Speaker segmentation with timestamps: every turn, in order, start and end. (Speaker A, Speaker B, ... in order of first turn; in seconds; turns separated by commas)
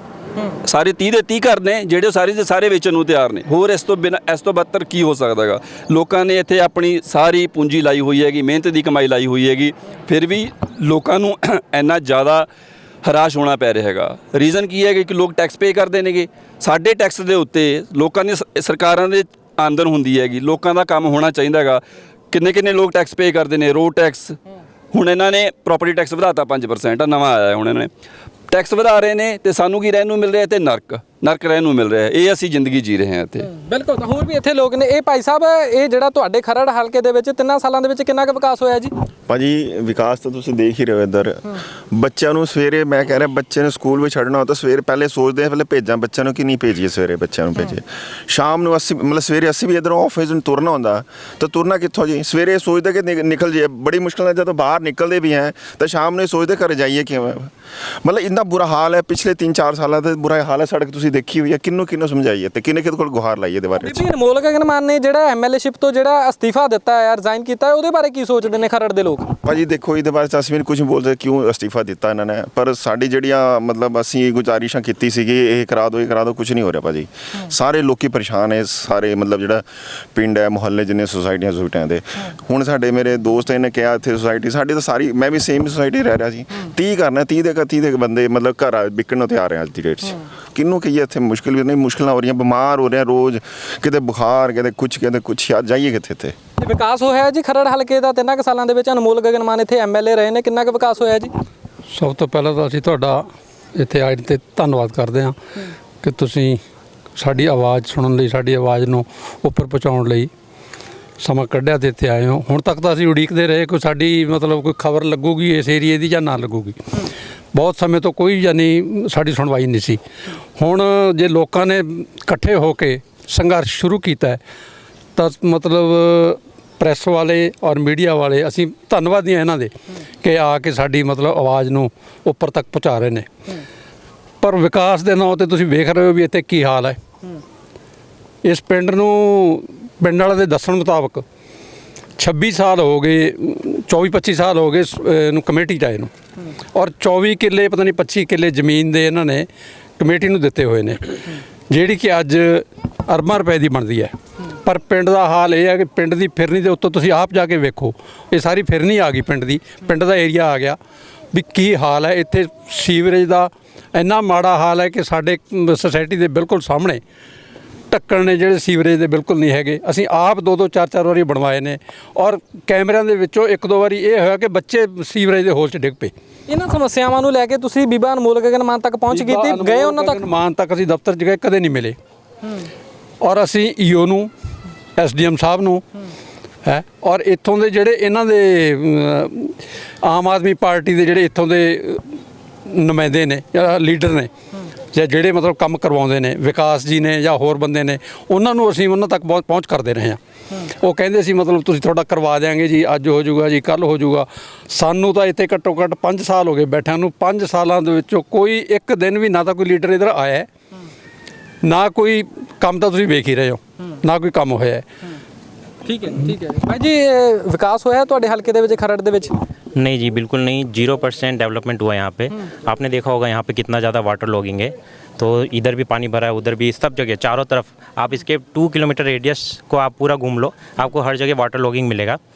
Speaker A: 0.6-12.5, Speaker A: 13.0-24.4, Speaker A: 24.9-27.9, Speaker A: 28.5-33.5, Speaker B: 33.5-38.9, Speaker C: 39.3-57.5, Speaker C: 58.0-64.1, Speaker B: 63.8-69.3, Speaker C: 69.4-96.3, Speaker B: 96.6-101.3, Speaker D: 101.9-105.4, Speaker D: 106.0-106.6, Speaker D: 107.2-110.3, Speaker D: 111.2-116.8, Speaker D: 117.5-120.0, Speaker D: 120.6-124.4, Speaker D: 125.2-133.3, Speaker D: 134.4-137.0, Speaker D: 138.4-141.2, Speaker D: 142.2-146.1, Speaker D: 146.7-149.5, Speaker D: 150.0-154.1, Speaker D: 154.6-160.8, Speaker D: 161.3-167.0, Speaker D: 167.9-176.1, Speaker B: 176.5-180.2, Speaker D: 179.1-182.0, Speaker D: 183.2-184.3, Speaker D: 185.0-185.8, Speaker D: 186.7-194.3, Speaker D: 194.9-210.5, Speaker D: 211.6-214.8, Speaker B: 215.9-219.4, Speaker E: 219.8-232.2